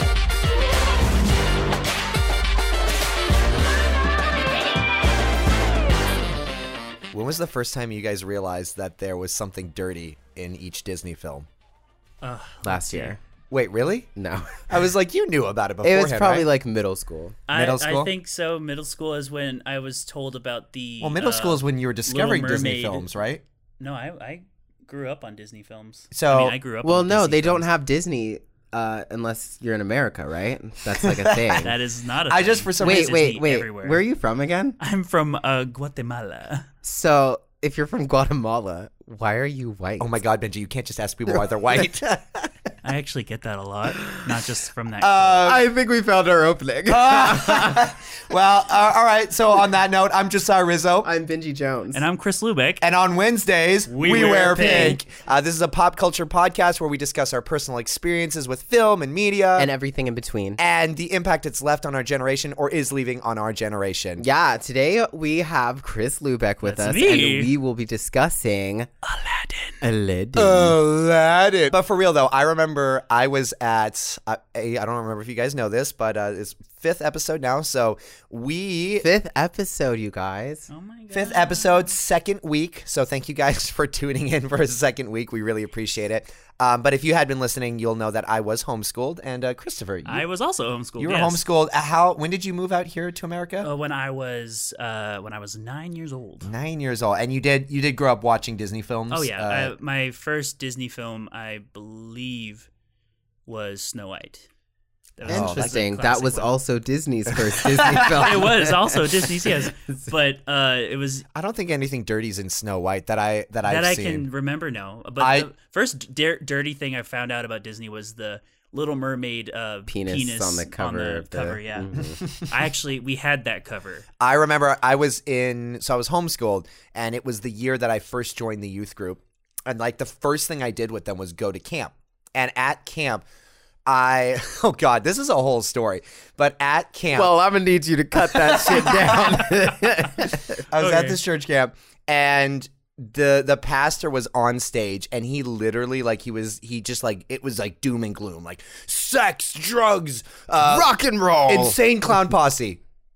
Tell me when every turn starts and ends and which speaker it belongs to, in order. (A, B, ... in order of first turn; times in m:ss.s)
0:07.1-0:11.5 A
0:12.2-0:13.2 B
0:12.6-0:13.2 C
0:13.5-0:14.1 A
0:14.2-0:14.6 C
0:14.7-0:16.5 A
0:15.8-0:17.4 C
0:17.5-0:23.1 B
0:17.5-0:18.1 A
0:21.0-0:23.4 A
0:23.8-0:27.6 B
0:26.1-0:26.6 A
0:26.8-0:31.7 C
0:31.0-0:31.7 A
0:31.6-0:34.0 B
0:32.3-0:33.2 A
0:32.8-0:34.8 C
0:34.8-0:36.7 B
0:36.8-0:40.2 C
0:40.0-0:42.5 A
0:42.8-0:45.5 B
0:44.0-0:44.4 C
0:45.0-0:45.6 A
0:45.4-0:47.9 C
0:46.9-0:51.1 A
0:51.0-0:52.0 C
0:51.9-0:52.8 B
0:52.8-0:59.7 A
0:53.9-0:55.0 B
0:54.6-0:55.0 C
0:59.6-1:00.6 C
1:00.6-1:04.2 A
1:04.2-1:08.9 C
1:06.6-1:07.5 B
1:09.0-1:09.8 B
1:09.8-1:10.8 C
1:10.4-1:19.1 A
1:19.0-1:20.7 C
1:20.7-1:21.8 B
1:21.1-1:30.2 A
1:30.0-1:31.4 B
1:31.0-1:33.7 A
1:33.6-1:36.5 B
1:36.4-1:39.7 A
1:39.1-1:42.7 B
1:43.5-1:44.4 B
1:45.2-1:46.6 B
1:45.2-1:50.0 C
1:45.3-1:45.7 A
1:47.3-1:48.4 A
1:47.9-1:51.3 B
1:51.3-1:54.2 A
1:53.6-2:04.0 B
1:55.2-1:55.5 A
1:59.9-2:02.2 C
2:04.2-2:13.2 A
2:13.8-2:17.3 A
2:17.1-2:20.6 C
2:18.3-2:19.5 A
2:20.7-2:30.9 A
2:20.8-2:21.2 B
2:30.6-2:31.8 C
2:31.5-2:32.8 A